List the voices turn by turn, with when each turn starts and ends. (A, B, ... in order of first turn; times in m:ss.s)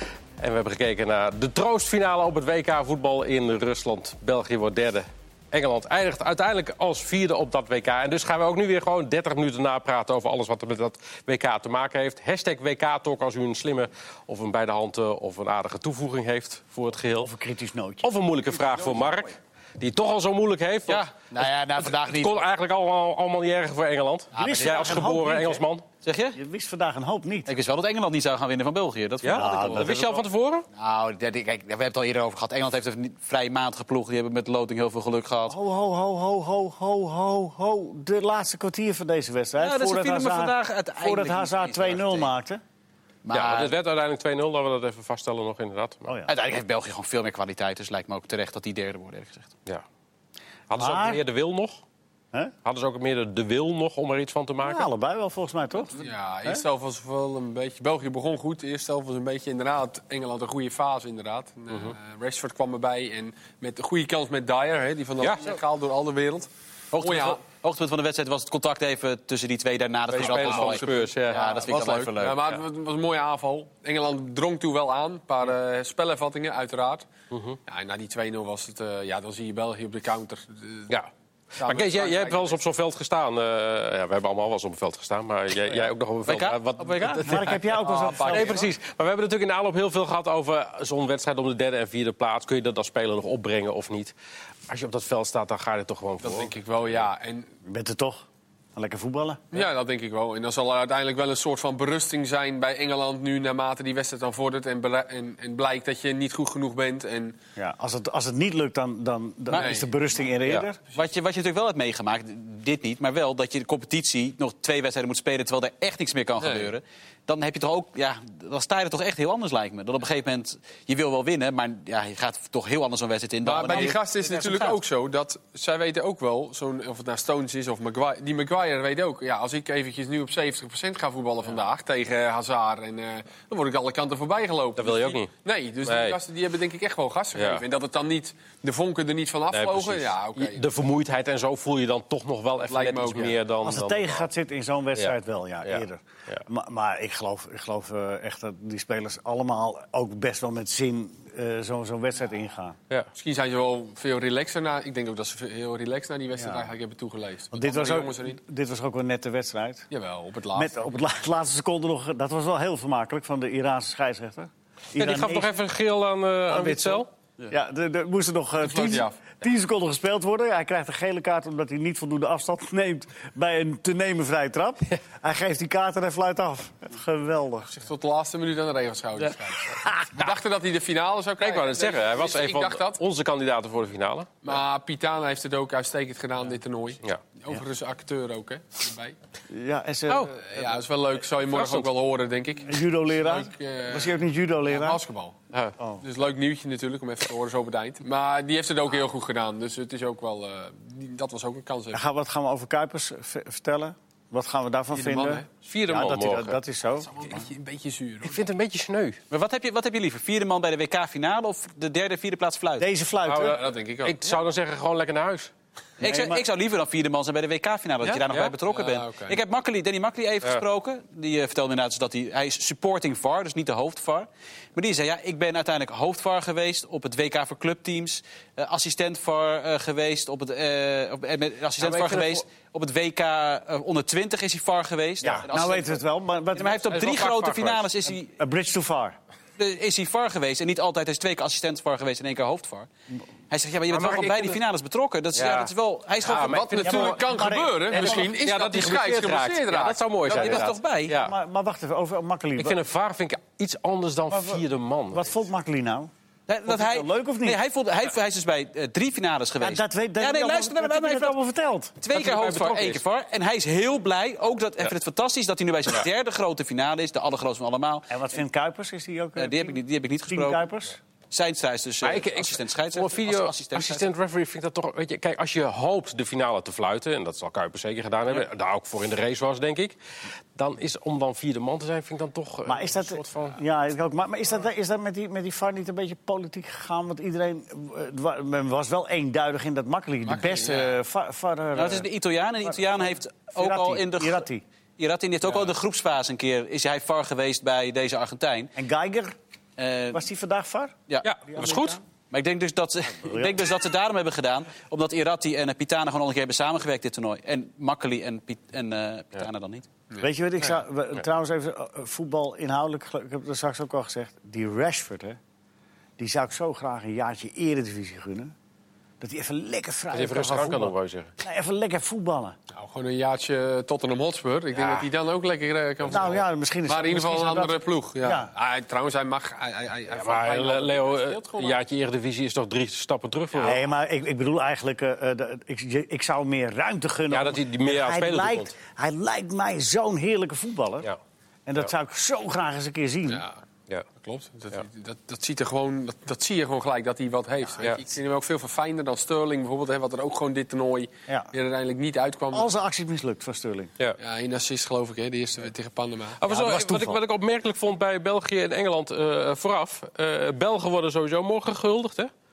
0:00.4-0:17.3 A
0:17.2-0:18.1 B
0:18.0-0:25.8 A
0:20.9-0:22.4 C
0:24.3-0:25.1 C
0:24.4-0:25.6 B
0:26.0-0:26.4 C
0:26.3-0:27.5 B
0:27.5-0:35.6 C
0:29.2-0:30.6 A
0:29.3-0:30.0 B
0:35.5-0:42.6 B
0:39.6-0:42.3 C
0:43.2-0:43.7 C
0:43.3-0:46.1 A
0:46.1-0:46.3 B
0:46.3-0:49.5 C
0:50.7-0:51.8 A
0:50.8-0:51.2 B
0:52.6-0:54.9 A
0:54.6-0:56.6 B
0:56.0-1:07.4 D
1:05.2-1:05.5 A
1:06.9-1:12.6 C
1:10.1-1:17.1 D
1:10.1-1:11.6 A
1:17.3-1:17.6 A
1:17.7-1:20.9 D
1:21.6-1:22.6 D
1:21.6-1:27.3 A
1:26.2-1:27.5 C
1:27.2-1:28.7 D
1:27.2-1:28.6 B
1:28.2-1:34.1 A
1:34.7-1:37.0 A
1:36.2-1:37.5 D
1:37.6-1:39.4 B
1:39.5-1:47.4 D
1:47.6-1:50.8 B
1:49.5-1:49.9 D
1:49.5-1:49.8 C
1:50.9-2:04.8 C
1:56.4-1:56.7 D
2:03.4-2:20.7 D
2:14.8-2:15.3 A
2:15.8-2:16.2 A
2:17.3-2:17.6 A
2:19.5-2:24.2 A
2:22.7-2:23.4 D
2:23.6-2:32.8 B
2:25.6-2:26.4 A
2:33.2-2:38.4 D
2:36.4-2:36.6 B
2:37.5-2:39.9 B
2:39.9-2:40.9 D
2:40.5-2:45.5 B
2:45.0-2:47.1 A
2:46.5-2:57.7 B
2:48.6-2:49.2 D
2:57.7-3:03.0 D
2:59.7-3:00.1 B
3:01.4-3:04.6 A
3:04.4-3:09.2 D
3:09.5-3:10.7 B
3:10.1-3:10.4 A
3:10.4-3:15.4 D
3:11.4-3:11.9 A
3:12.7-3:15.0 B
3:15.8-3:16.0 B
3:16.0-3:22.0 D
3:21.9-3:27.4 B
3:24.9-3:25.5 D
3:25.6-3:26.6 A
3:27.1-3:28.4 D
3:28.2-3:29.2 A
3:29.3-3:32.9 C
3:32.8-3:33.7 B
3:33.2-3:35.5 A
3:33.4-3:34.2 D
3:36.0-3:56.0 C
3:36.0-3:36.4 B
3:38.1-3:38.5 A
3:38.7-3:39.4 D
3:51.8-3:52.4 A
3:55.2-3:57.2 B
3:56.5-3:58.4 C
3:56.9-3:57.9 A
3:58.3-3:59.2 B
3:59.6-4:02.9 C
4:03.5-4:06.7 C
4:03.9-4:04.6 A
4:05.3-4:07.2 A
4:06.2-4:10.6 D
4:06.8-4:08.3 B
4:07.9-4:11.3 A
4:10.3-4:11.2 C
4:11.1-4:12.8 B
4:12.6-4:15.3 A
4:14.3-4:16.1 B
4:16.5-4:21.4 C
4:16.6-4:17.6 B
4:19.6-4:22.0 B
4:22.0-4:28.1 C
4:22.1-4:23.0 A
4:28.1-4:31.0 B
4:29.4-4:30.7 C
4:31.3-4:34.1 C
4:32.0-4:40.0 A
4:40.5-4:43.6 A
4:42.6-4:52.1 B
4:50.2-4:51.0 D
4:51.7-4:54.4 C
4:52.6-4:54.6 B
4:55.0-4:58.7 C
4:58.8-4:59.3 B
4:59.8-5:00.2 C
5:00.1-5:02.0 B
5:01.2-5:02.0 A
5:02.3-5:09.9 C
5:03.2-5:03.7 B
5:10.2-5:15.4 B
5:16.2-5:18.5 B
5:19.2-5:22.6 B
5:20.1-5:21.3 A
5:22.7-5:31.8 D
5:26.0-5:28.5 B
5:30.1-5:33.8 A
5:33.6-5:41.1 B
5:37.3-5:38.7 A
5:41.6-5:43.4 B
5:43.3-5:43.6 D
5:44.2-5:52.7 D
5:52.5-5:53.9 B
5:54.2-5:56.4 D
5:56.4-6:02.3 A
5:56.5-5:57.2 B